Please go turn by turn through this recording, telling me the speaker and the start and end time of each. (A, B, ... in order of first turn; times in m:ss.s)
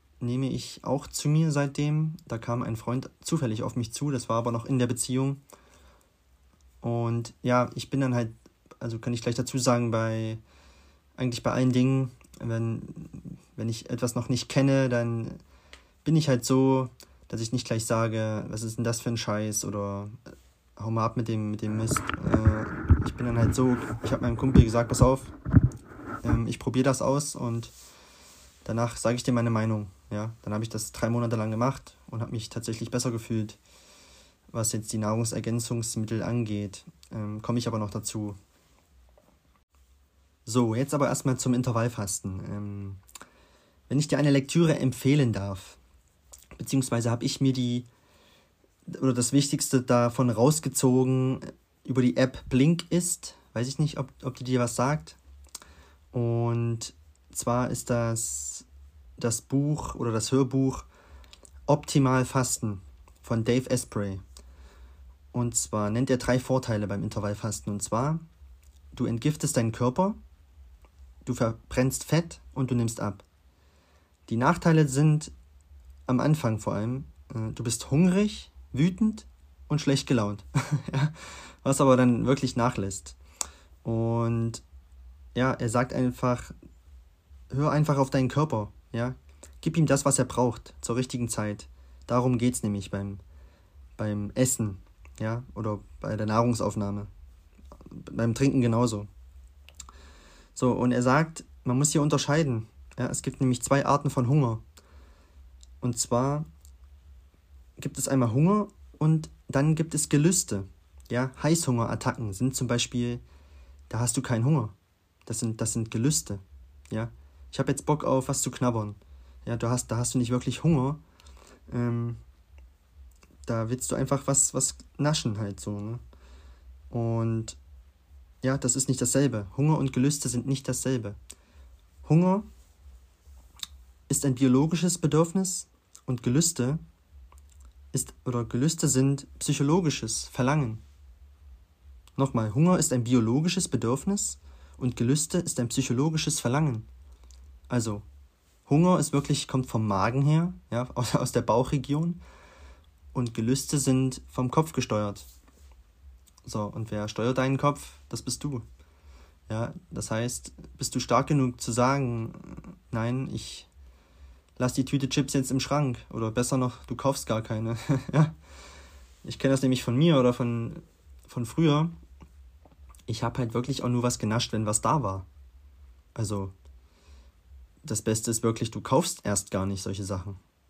0:00.2-0:05.4 A
0:06.8-0:10.4 A
0:11.2-0:15.4 A
0:16.0-0:20.2 A
0:20.8-0:25.3 A
0:26.2-0:27.7 A
0:28.6-0:33.6 A
0:34.5-0:38.4 A
0:40.4-0:43.0 A
0:43.9-0:45.8 A
0:46.6-0:47.9 A
0:48.9-0:55.2 A
0:56.1-0:58.6 A
0:59.2-1:00.9 A
1:01.7-1:04.2 A
1:05.3-1:08.2 A
1:08.9-1:10.2 A
1:11.2-1:13.2 A
1:14.3-1:15.3 A
1:16.1-1:23.2 A
1:23.8-1:24.6 A
1:25.3-1:26.5 A
1:27.5-1:33.2 A
1:34.0-1:37.1 A
1:37.9-1:39.1 A
1:40.5-1:44.6 A
1:45.8-1:46.5 A
1:47.8-1:53.2 A
1:53.9-1:54.7 A
1:55.2-2:01.0 A
2:01.7-2:02.2 A
2:03.4-2:06.0 A
2:06.9-2:07.6 A
2:08.4-2:11.2 A
2:12.0-2:12.4 A
2:14.1-2:16.8 A
2:17.9-2:20.8 A
2:22.2-2:26.9 A
2:27.7-2:28.0 A
2:28.7-2:32.2 A
2:33.1-2:35.3 A
2:36.4-2:38.6 A
2:39.5-2:43.7 A
2:44.6-2:48.4 A
2:49.2-2:51.9 A
2:53.1-2:55.3 A
2:56.1-2:56.5 A
2:57.8-3:00.4 A